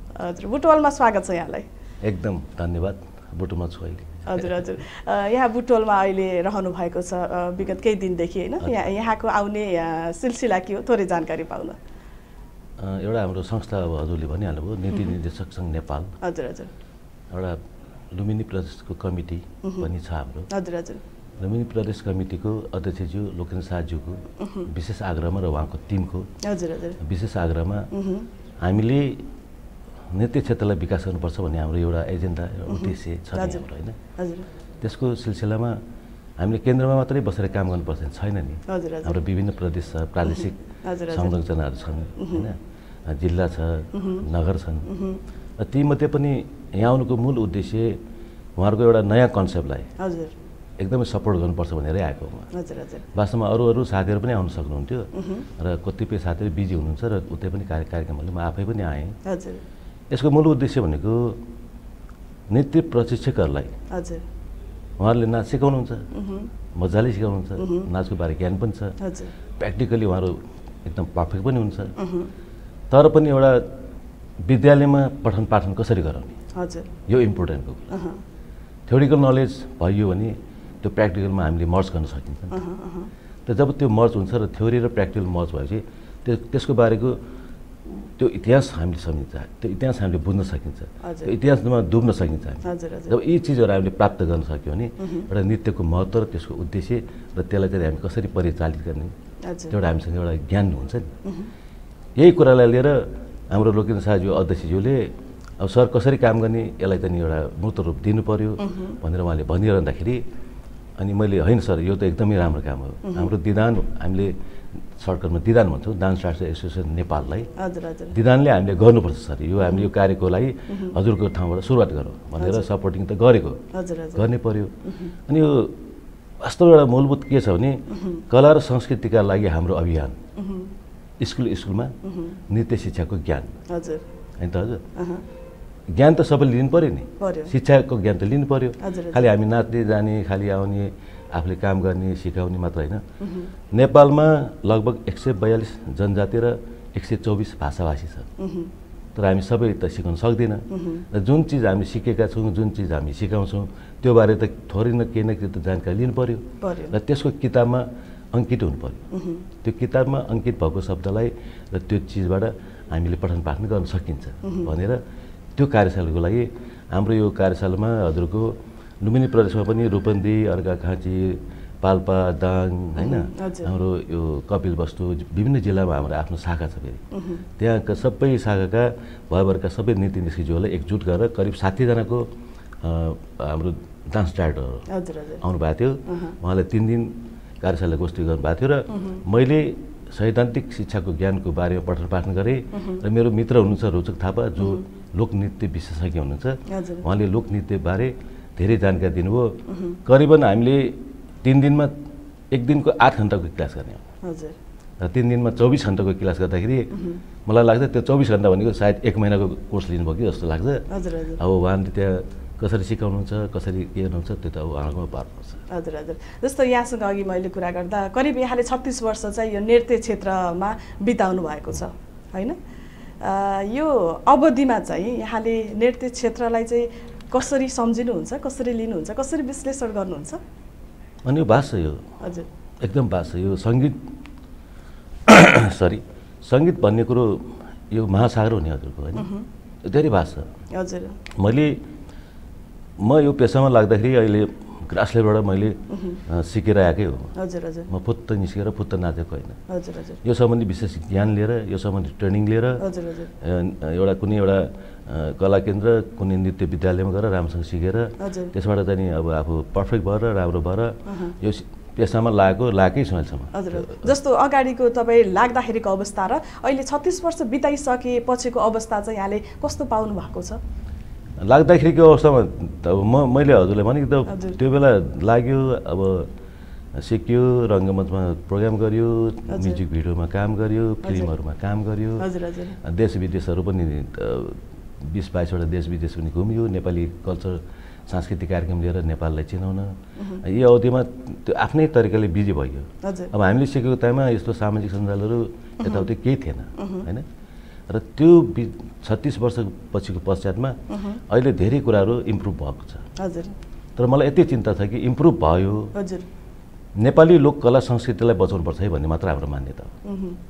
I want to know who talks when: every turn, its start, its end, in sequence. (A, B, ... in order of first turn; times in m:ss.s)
0:00.2-0:01.7 A
0:02.0-0:04.6 B
0:04.3-0:11.8 A
0:12.8-0:16.1 B
0:16.2-0:16.7 A
0:17.3-0:20.5 B
0:19.6-0:19.9 A
0:20.5-0:21.0 A
0:21.4-0:26.3 B
0:24.4-0:24.7 A
0:26.4-0:27.0 A
0:27.0-0:27.9 B
0:27.9-0:28.3 A
0:28.6-0:29.3 B
0:30.1-0:34.0 B
0:32.7-0:33.6 A
0:34.2-0:34.5 A
0:34.8-0:35.8 B
0:36.4-0:44.9 B
0:38.7-0:39.2 A
0:40.8-0:41.3 A
0:42.2-0:42.5 A
0:43.9-0:44.2 A
0:44.9-0:45.2 A
0:45.6-0:48.0 B
0:48.6-0:49.9 B
0:50.0-0:50.3 A
0:50.8-0:52.5 B
0:52.5-0:53.0 A
0:53.1-0:59.2 B
0:55.2-0:55.5 A
0:59.2-0:59.6 A
1:00.1-1:01.4 B
1:02.5-1:03.7 B
1:03.9-1:04.2 A
1:05.0-1:06.1 B
1:06.1-1:06.5 A
1:06.7-1:09.0 B
1:07.6-1:07.9 A
1:09.0-1:09.3 A
1:09.6-1:11.9 B
1:12.0-1:12.3 A
1:12.9-1:13.8 B
1:14.4-1:16.4 B
1:16.6-1:16.9 A
1:17.1-1:17.9 B
1:17.9-1:18.2 A
1:18.9-1:22.6 B
1:22.5-1:23.1 A
1:23.5-1:27.2 B
1:28.1-1:39.1 B
1:31.0-1:31.3 A
1:32.6-1:33.1 A
1:35.0-1:35.3 A
1:39.4-1:39.8 A
1:39.7-1:41.1 B
1:41.2-1:41.5 A
1:42.2-1:50.2 B
1:48.6-1:49.0 A
1:51.0-1:54.3 B
1:55.0-1:57.5 B
1:57.6-1:58.2 A
1:58.1-2:03.6 B
2:00.7-2:01.0 A
2:02.4-2:02.6 A
2:03.7-2:04.2 A
2:04.2-2:05.8 B
2:04.9-2:05.1 A
2:06.4-2:10.2 B
2:07.9-2:08.2 A
2:10.4-2:10.7 A
2:11.2-2:12.0 B
2:12.0-2:12.4 A
2:12.5-2:13.5 B
2:13.7-2:14.0 A
2:14.4-2:14.8 B
2:15.0-2:15.2 A
2:15.9-2:23.0 B
2:17.2-2:17.5 A
2:18.8-2:19.3 A
2:23.2-2:23.5 A
2:23.7-2:28.3 B
2:28.4-2:28.7 A
2:29.2-2:39.0 B
2:30.7-2:31.0 A
2:36.6-2:37.0 A
2:39.1-2:39.5 A
2:39.6-2:45.0 B
2:44.4-2:44.7 A
2:45.6-2:57.0 B
2:53.0-2:53.7 A
2:57.1-2:57.4 A
2:57.6-3:02.3 B
3:02.8-3:04.9 B
3:04.9-3:05.4 A
3:05.4-3:21.9 B
3:06.1-3:06.4 A
3:08.9-3:09.2 A
3:12.7-3:13.0 A
3:16.7-3:17.0 A
3:19.7-3:20.0 A
3:22.5-3:24.0 B
3:24.2-3:24.6 A
3:25.0-3:26.9 B
3:26.9-3:27.2 A
3:27.4-3:35.6 B
3:30.9-3:31.4 A
3:35.7-3:42.6 A
3:43.2-3:50.4 A
3:51.2-3:52.0 B
3:52.2-3:52.5 A
3:52.8-3:54.0 B
3:55.3-3:59.3 B
3:59.2-3:59.5 A
3:59.8-4:00.5 B
4:00.7-4:01.2 A
4:01.3-4:01.8 B
4:03.0-4:07.3 B
4:05.9-4:06.2 A
4:07.4-4:07.9 A
4:07.9-4:09.6 B
4:09.7-4:10.2 A
4:10.2-4:12.9 B
4:12.8-4:13.3 A
4:13.4-4:24.1 B
4:18.2-4:18.5 A
4:21.1-4:21.4 A
4:23.5-4:30.6 A
4:31.4-4:36.3 B
4:34.3-4:34.6 A
4:37.0-4:57.2 B
4:39.5-4:39.8 A
4:41.0-4:41.3 A
4:42.2-4:42.8 A
4:50.2-4:50.4 A
4:53.0-4:53.3 A
4:55.8-4:56.1 A
4:56.8-4:57.1 A
4:57.9-5:00.8 B
5:00.9-5:01.2 A
5:01.3-5:03.1 B
5:03.2-5:03.6 A
5:04.0-5:05.9 B
5:05.9-5:06.3 A
5:07.0-5:09.9 B
5:10.0-5:10.4 A